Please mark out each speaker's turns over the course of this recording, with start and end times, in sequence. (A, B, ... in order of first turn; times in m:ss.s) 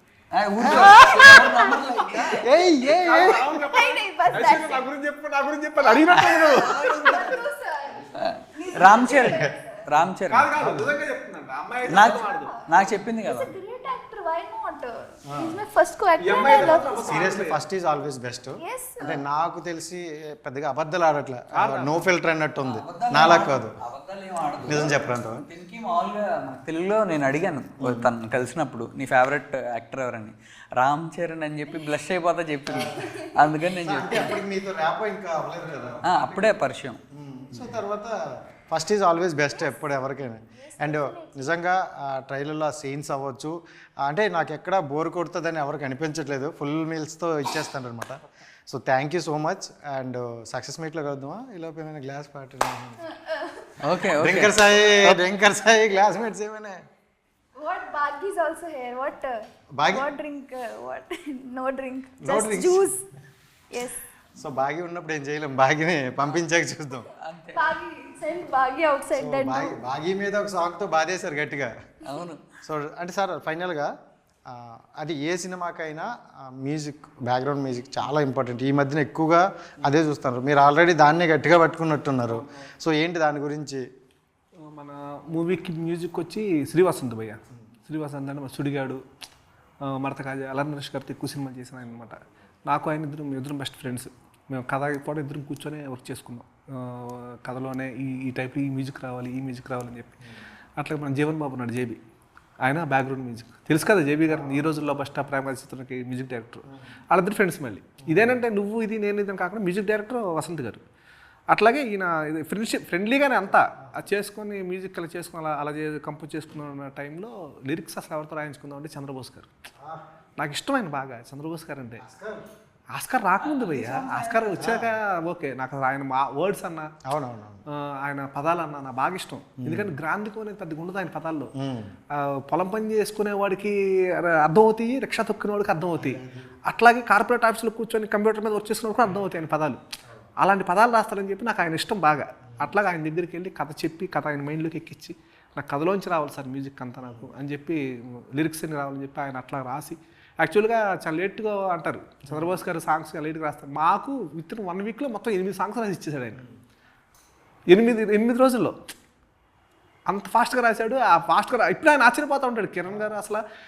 0:00.3-0:02.4 A
0:00.6-0:01.3 B
0:00.7-0:02.4 C
0:02.4-0:03.7 B
0:02.8-0:07.4 D
0:03.7-0:04.8 C
0:06.2-0:09.8 C
0:06.9-0:07.3 B
0:08.2-0:10.5 A
0:09.0-0:09.5 B
0:10.3-0:12.5 D
0:10.6-0:11.0 B
0:11.9-0:13.5 A
0:12.0-0:17.2 C
0:15.3-0:15.6 B
0:16.2-0:17.6 D
0:16.5-0:23.8 B
0:18.6-0:19.0 C
0:21.5-0:22.0 D
0:22.6-0:34.3 A
0:24.6-0:25.4 B
0:27.8-0:28.1 B
0:32.7-0:33.0 B
0:32.9-0:34.3 C
0:33.8-0:36.5 B
0:35.7-0:36.0 D
0:36.0-0:37.0 A
0:37.1-0:38.1 B
0:38.7-0:53.0 B
0:39.5-0:41.5 C
0:53.1-0:53.7 C
0:53.8-0:55.2 A
0:54.2-0:56.8 B
0:57.6-0:59.4 C
0:59.7-1:00.1 B
0:59.9-1:03.0 C
1:02.2-1:02.9 B
1:03.7-1:04.0 C
1:04.4-1:07.1 B
1:07.2-1:07.6 A
1:07.5-1:09.8 C
1:09.2-1:11.7 B
1:12.0-1:12.4 A
1:12.6-1:13.9 B
1:14.5-1:23.8 B
1:22.2-1:22.6 D
1:24.6-1:29.0 D
1:29.8-1:40.2 D
1:40.8-1:42.0 D
1:42.6-1:50.8 D
1:44.3-1:44.7 B
1:48.0-1:48.4 B
1:51.5-1:59.5 D
1:53.4-1:54.1 B
1:59.8-2:00.0 B
2:00.4-2:02.0 D
2:02.0-2:02.4 B
2:02.9-2:06.9 D
2:03.4-2:04.5 A
2:04.6-2:05.0 B
2:07.1-2:07.6 B
2:07.7-2:11.5 D
2:09.6-2:09.9 B
2:11.6-2:11.9 B
2:12.1-2:19.8 D
2:15.9-2:16.5 B
2:20.4-2:36.4 D
2:27.0-2:27.3 B
2:32.3-2:32.6 B
2:37.7-2:38.8 D
2:40.1-2:43.4 D
2:42.9-2:43.2 B